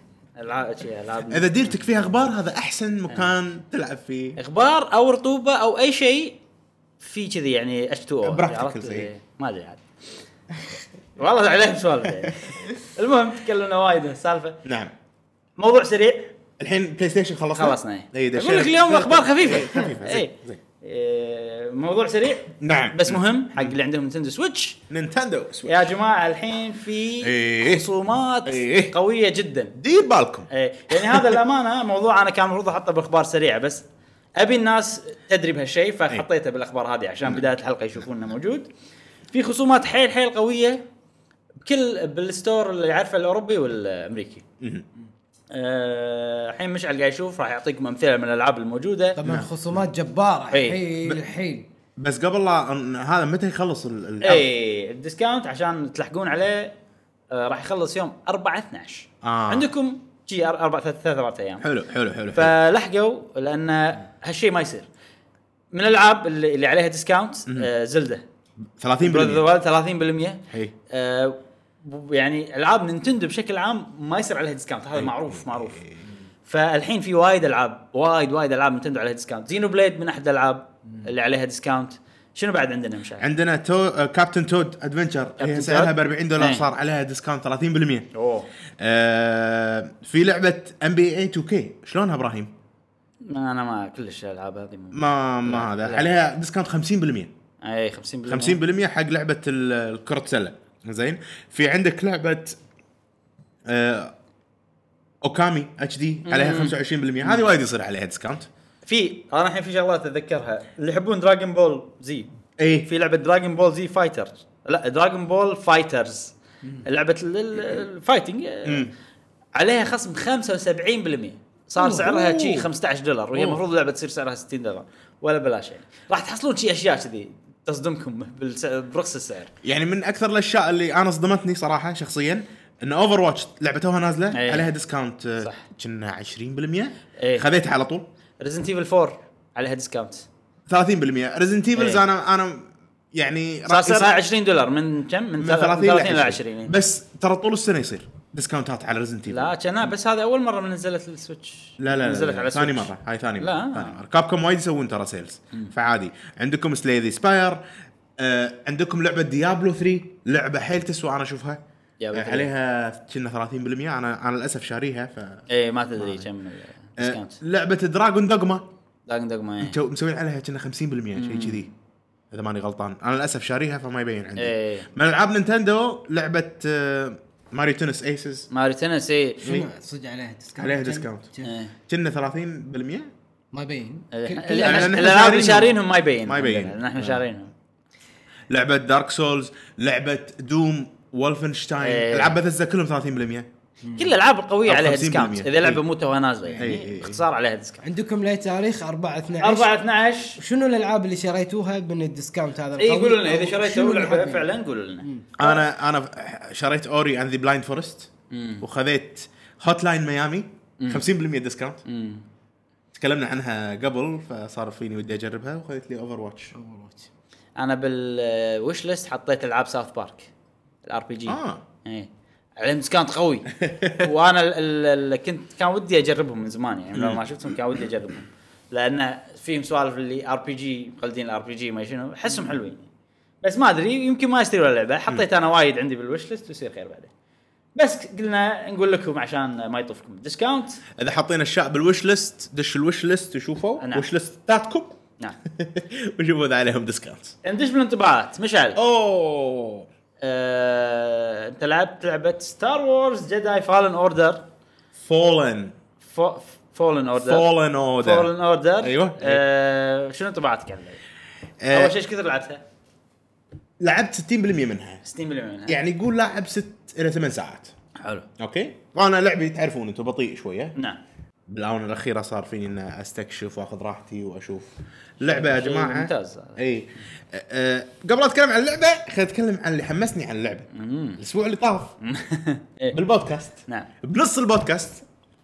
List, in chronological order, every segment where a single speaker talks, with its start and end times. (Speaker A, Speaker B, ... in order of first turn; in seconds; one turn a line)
Speaker A: 0.3-1.8
Speaker B: 1.3-4.4
Speaker A: 4.4-6.4
Speaker A: 7.0-9.8
Speaker B: 8.2-9.1
Speaker A: 11.2-14.6
Speaker B: 14.6-14.9
Speaker A: 15.6-16.3
Speaker B: 16.6-20.6
Speaker A: 17.6-24.8
Speaker B: 22.6-23.8
Speaker B: 24.9-25.9
Speaker A: 25.6-29.8
Speaker B: 27.2-27.9
Speaker B: 28.4-28.9
Speaker B: 29.8-31.4
Speaker A: 30.5-33.8
Speaker A: 34.4-38.7
Speaker A: 39.3-40.8
Speaker A: 41.6-44.4
Speaker B: 44.6-44.9
Speaker A: 45.5-49.2
Speaker C: 49.1-51.7
Speaker B: 49.2-49.8
Speaker A: 50.5-50.8
Speaker B: 52.0-54.5
Speaker A: 54.2-56.7
Speaker A: 57.3-61.7
Speaker B: 59.2-59.7
Speaker B: 61.6-62.5
Speaker A: 62.3-64.9
Speaker A: 65.7-68.2
Speaker B: 68.8-69.5
Speaker A: 69.0-75.8
Speaker B: 74.9-76.0
Speaker A: 76.5-83.3
Speaker B: 83.2-88.1
Speaker A: 85.4-86.7
Speaker A: 88.1-88.5
Speaker B: 88.8-92.5
Speaker A: 93.3-96.1
Speaker B: 94.9-97.3
Speaker A: 97.6-98.6
Speaker B: 98.2-102.6
Speaker B: 103.7-104.1
Speaker B: 105.2-108.5
Speaker A: 106.2-107.5
Speaker A: 108.8-112.3
Speaker B: 112.6-112.9
Speaker A: 112.8-118.9
Speaker B: 118.6-118.9
Speaker A: 119.5-129.5
Speaker B: 121.8-122.7
Speaker B: 123.3-123.6
Speaker B: 129.6-138.1
Speaker A: 134.3-134.7
Speaker A: 135.4-135.6
Speaker A: 137.2-137.4
Speaker A: 138.4-140.3
Speaker B: 140.7-144.2
Speaker A: 141.8-142.0
Speaker A: 143.7-146.8
Speaker B: 145.4-149.5
Speaker A: 149.3-154.0
Speaker B: 151.8-157.6
Speaker B: 158.2-161.6
Speaker A: 162.0-162.5
Speaker B: 162.1-165.4
Speaker A: 165.5-167.4
Speaker B: 166.0-166.3
Speaker B: 167.0-168.7
Speaker A: 169.1-169.8
Speaker B: 169.6-171.7
Speaker A: 171.2-171.6
Speaker B: 172.3-178.5
Speaker A: 174.4-174.9
Speaker A: 178.5-179.4
Speaker C: 179.4-181.6
Speaker B: 180.6-181.3
Speaker A: 181.4-181.7
Speaker B: 181.9-183.1
Speaker C: 183.5-185.0
Speaker A: 184.1-187.5
Speaker B: 184.5-187.2
Speaker B: 188.5-193.5
Speaker A: 191.8-192.4
Speaker A: 193.9-197.8
Speaker B: 194.6-195.8
Speaker B: 196.6-197.2
Speaker C: 197.8-199.7
Speaker A: 199.4-200.4
Speaker C: 200.4-204.5
Speaker A: 202.8-205.6
Speaker C: 205.0-205.3
Speaker B: 205.4-208.1
Speaker A: 208.3-208.6
Speaker B: 208.6-211.8
Speaker A: 210.8-211.1
Speaker A: 211.8-212.2
Speaker B: 212.9-216.5
Speaker C: 216.5-217.1
Speaker A: 217.6-220.3
Speaker A: 220.8-232.8
Speaker B: 221.3-221.6
Speaker B: 223.6-224.1
Speaker B: 226.9-227.6
Speaker A: 233.4-237.1
Speaker A: 237.8-240.8
Speaker B: 241.0-247.3
Speaker A: 243.8-244.1
Speaker A: 247.4-248.8
Speaker B: 248.8-249.9
Speaker A: 250.2-254.4
Speaker B: 255.0-255.7
Speaker A: 256.0-257.4
Speaker B: 257.2-259.4
Speaker A: 258.0-261.0
Speaker B: 261.6-261.9
Speaker A: 261.7-262.6
Speaker B: 263.8-265.0
Speaker A: 265.0-265.8
Speaker B: 265.7-267.7
Speaker A: 268.0-268.3
Speaker B: 268.4-270.7
Speaker B: 271.5-280.7
Speaker A: 275.2-276.6
Speaker A: 280.7-281.2
Speaker B: 281.2-281.9
Speaker A: 282.0-283.0
Speaker B: 282.9-285.0